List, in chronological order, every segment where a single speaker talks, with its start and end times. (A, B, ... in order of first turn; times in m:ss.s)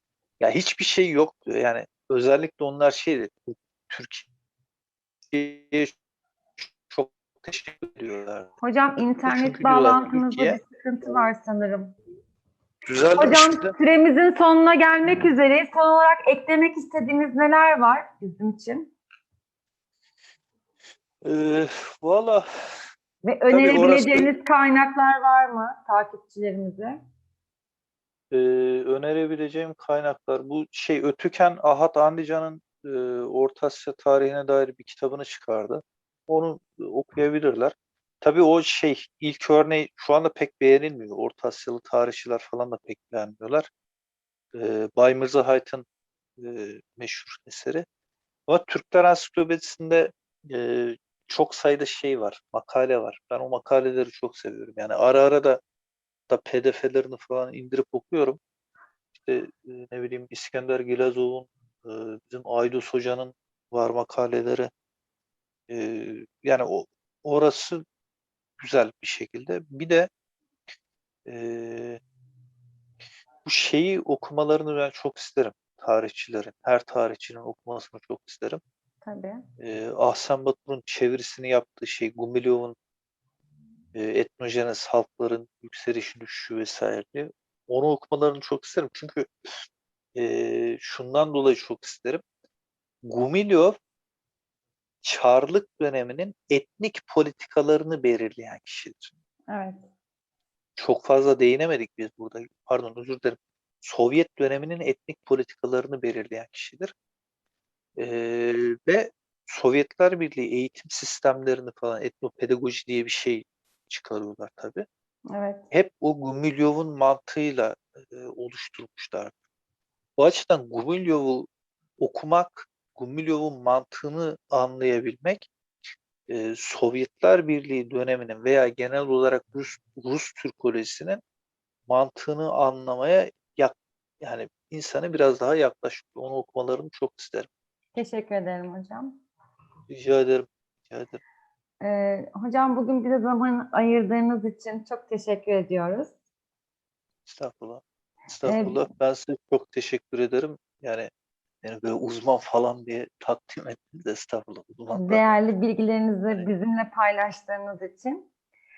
0:00.4-0:04.3 A
0:05.3-0:05.9 A
0:06.9-0:08.5 A
0:08.6-0:11.9 B
0:09.2-0:10.6 A
0:12.8-0:13.7 A
0:13.2-0:18.9 B
0:21.2-0:22.4 A
0:23.2-0:27.0 B
0:23.5-0:24.3 A
0:28.3-0:43.7 A
0:44.5-0:45.8 A
0:46.4-0:47.8 A
0:48.5-0:55.6 A
0:56.3-0:58.4 A
0:59.2-1:04.7 A
1:05.7-1:07.8 A
1:08.6-1:10.1 A
1:11.2-1:12.0 A
1:13.4-1:18.6 A
1:19.0-1:19.4 B
1:19.6-1:22.8 A
1:23.9-1:29.3 A
1:30.2-1:32.2 A
1:33.1-1:33.8 A
1:35.0-1:39.1 A
1:39.5-1:39.9 B
1:40.8-1:46.9 A
1:48.0-1:54.8 A
1:55.3-1:55.6 B
1:55.7-1:59.3 A
2:00.2-2:05.5 A
2:06.3-2:11.2 A
2:11.9-2:17.5 A
2:17.9-2:19.2 B
2:19.9-2:21.2 A
2:21.8-2:26.1 B
2:27.2-2:31.1 A
2:28.4-2:28.8 B
2:31.6-2:35.3 A
2:34.9-2:38.3 B